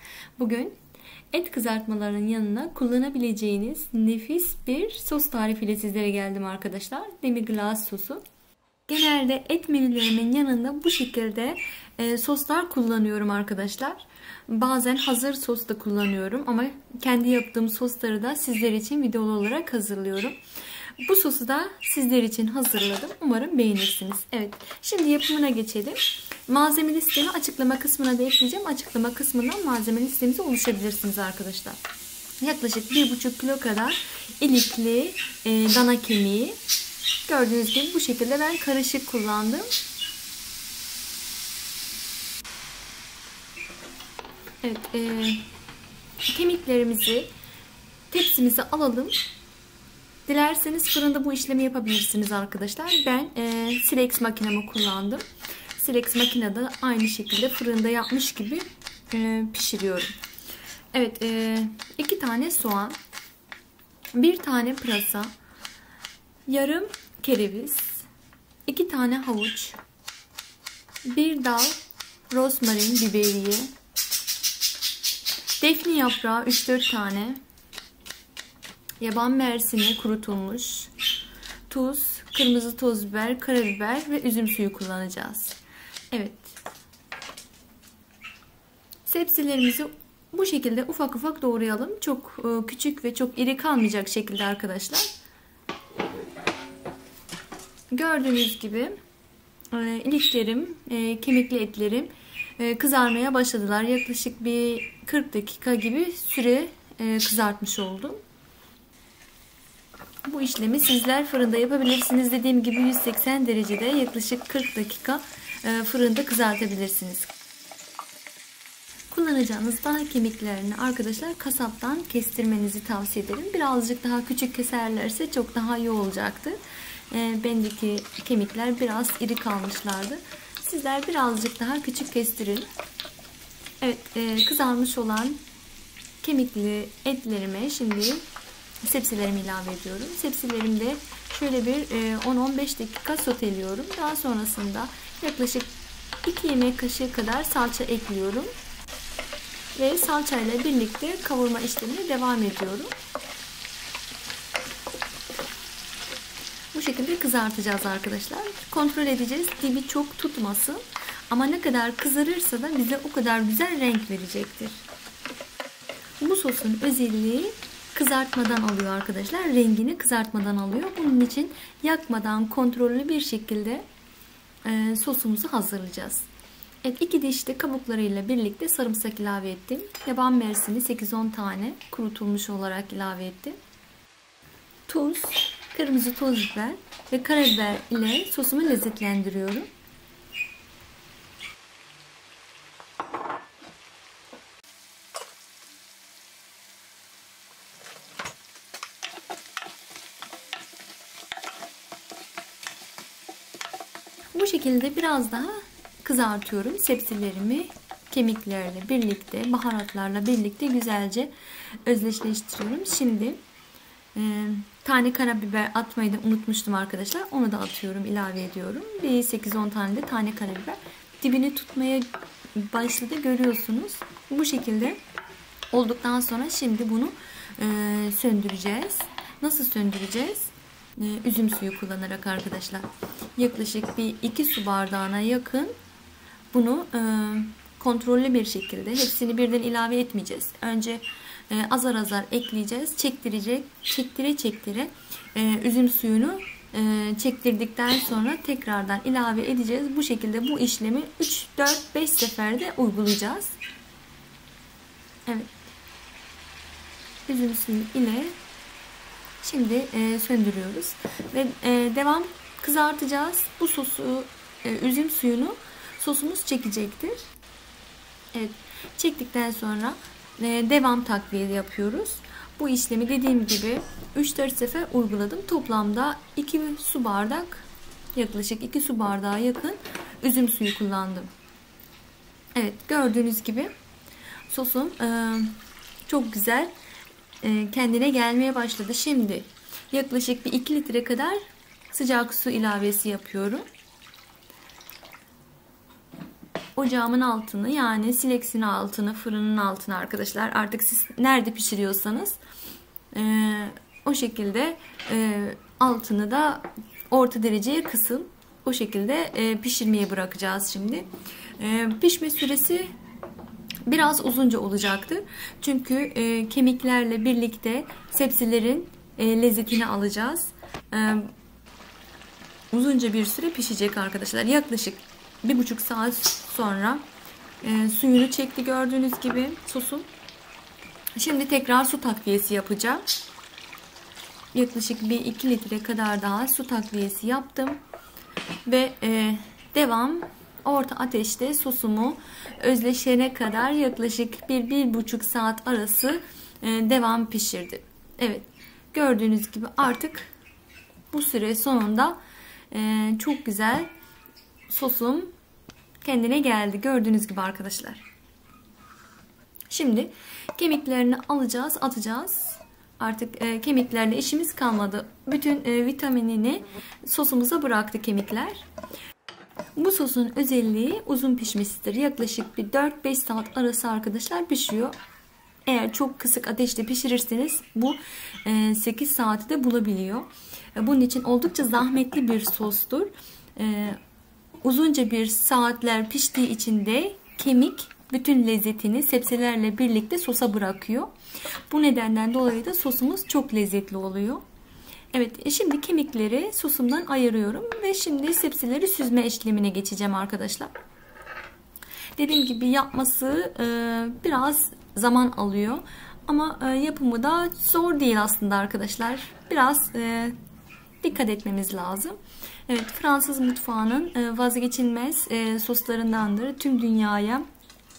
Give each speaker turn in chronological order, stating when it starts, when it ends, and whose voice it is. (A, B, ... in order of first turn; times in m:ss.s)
0:00.4-0:00.7 A
0:01.3-0:08.2 A
0:08.9-0:20.4 A
0:21.0-0:31.8 A
0:32.4-0:36.6 A
0:37.2-0:39.7 A
0:44.6-0:45.4 A
0:46.3-0:47.3 A
0:48.1-0:49.2 A
0:50.2-0:55.2 A
0:55.8-1:00.2 A
1:00.9-1:03.0 A
1:04.1-1:05.3 A
1:06.5-1:08.1 A
1:08.6-1:09.8 A
1:11.0-1:11.8 A
1:12.3-1:13.7 A
1:15.6-1:17.4 A
1:19.0-1:20.9 A
1:21.7-1:25.6 A
1:26.1-1:26.6 A
1:29.0-1:35.1 A
1:37.9-1:38.9 A
1:39.7-1:48.2 A
1:50.2-1:57.3 A
1:59.1-2:06.6 A
2:07.1-2:12.7 A
2:13.8-2:15.4 A
2:16.2-2:18.2 A
2:18.8-2:25.7 A
2:26.2-2:28.5 A
2:29.7-2:32.9 A
2:36.7-2:44.8 A
2:46.2-2:53.8 A
2:54.6-2:56.3 A
2:56.8-3:03.6 A
3:04.9-3:09.7 A
3:24.3-3:31.3 A
3:31.8-3:33.4 A
3:34.1-3:45.0 A
3:45.7-3:55.7 A
3:56.5-4:13.6 A
4:15.2-4:15.5 A
4:17.3-4:18.3 A
4:19.4-4:27.2 A
4:28.3-4:41.3 A
4:42.5-4:43.7 A
4:44.5-4:46.7 A
4:47.4-4:51.4 A
4:51.9-4:53.6 A
4:56.8-5:02.4 A
5:03.1-5:12.9 A
5:13.8-5:21.3 A
5:22.7-5:27.0 A
5:27.6-5:30.1 A
5:31.2-5:33.0 A
5:34.5-5:37.8 A
5:38.6-5:50.3 A
5:51.1-5:52.2 A
5:52.7-5:53.9 A
5:54.7-5:55.3 A
5:56.0-5:58.0 A
5:59.7-6:08.6 A
6:09.8-6:15.0 A
6:15.6-6:24.0 A
6:24.6-6:31.1 A
6:31.7-6:34.4 A
6:35.1-6:40.7 A
6:42.2-6:50.3 A
6:51.0-6:52.2 A
6:52.7-6:57.4 A